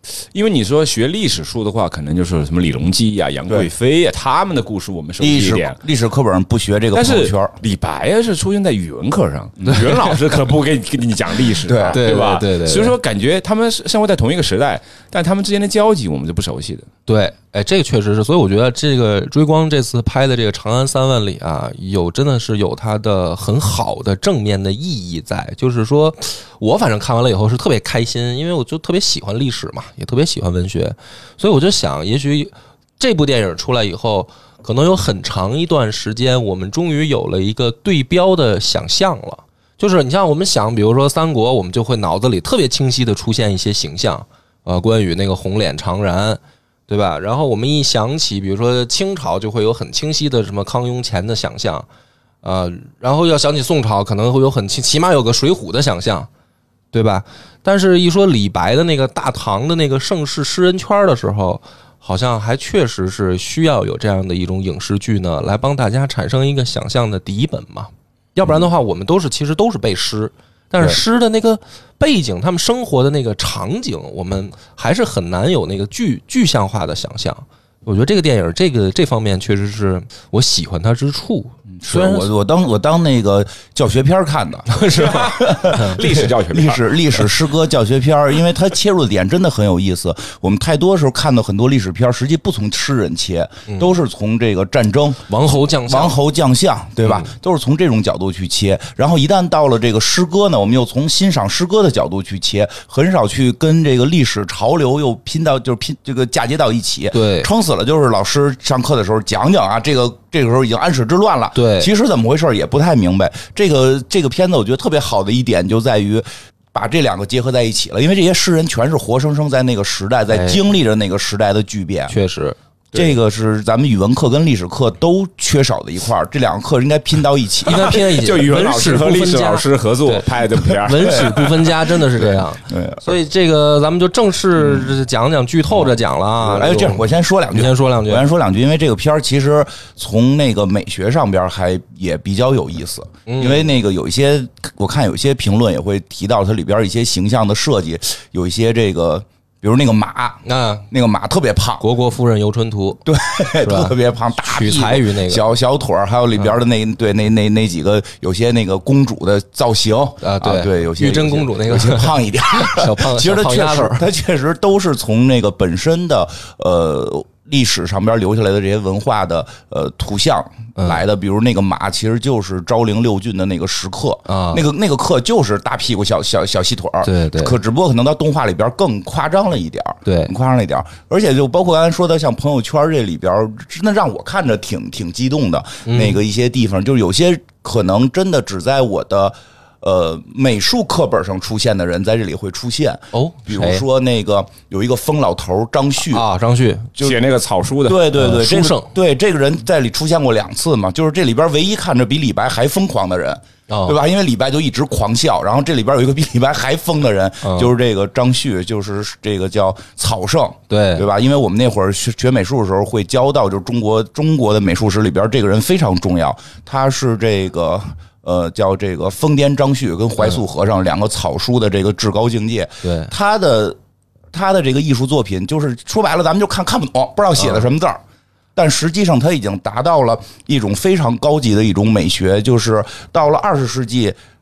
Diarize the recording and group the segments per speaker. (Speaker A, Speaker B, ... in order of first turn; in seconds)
Speaker A: 0.3-5.8, 6.9-16.9, 84.9-87.2, 127.7-131.7, 197.0-198.1
Speaker B: 5.2-7.5, 11.7-12.0, 81.7-95.3, 95.8-122.1, 122.9-128.0, 131.0-131.3, 132.2-133.1, 134.6-134.9, 135.7-151.8, 153.0-196.2, 197.8-223.8, 224.3-228.0, 228.6-234.2
Speaker C: 9.7-10.3, 11.9-12.9, 17.1-51.9, 52.4-56.3, 56.9-82.3, 84.7-86.0, 95.3-96.1, 97.0-97.3, 107.1-107.5, 111.5-111.9, 120.3-120.6, 122.1-122.6, 127.6-138.2, 143.2-143.7, 150.4-150.9, 151.8-153.0, 153.6-155.4, 160.2-164.1, 170.8-171.0, 174.3-174.6, 177.0-177.6, 180.0-180.3, 185.8-186.2, 193.1-193.8, 196.1-196.9, 198.1-198.9, 203.7-204.0, 207.4-207.7, 210.7-211.1, 222.8-223.1, 227.4-227.6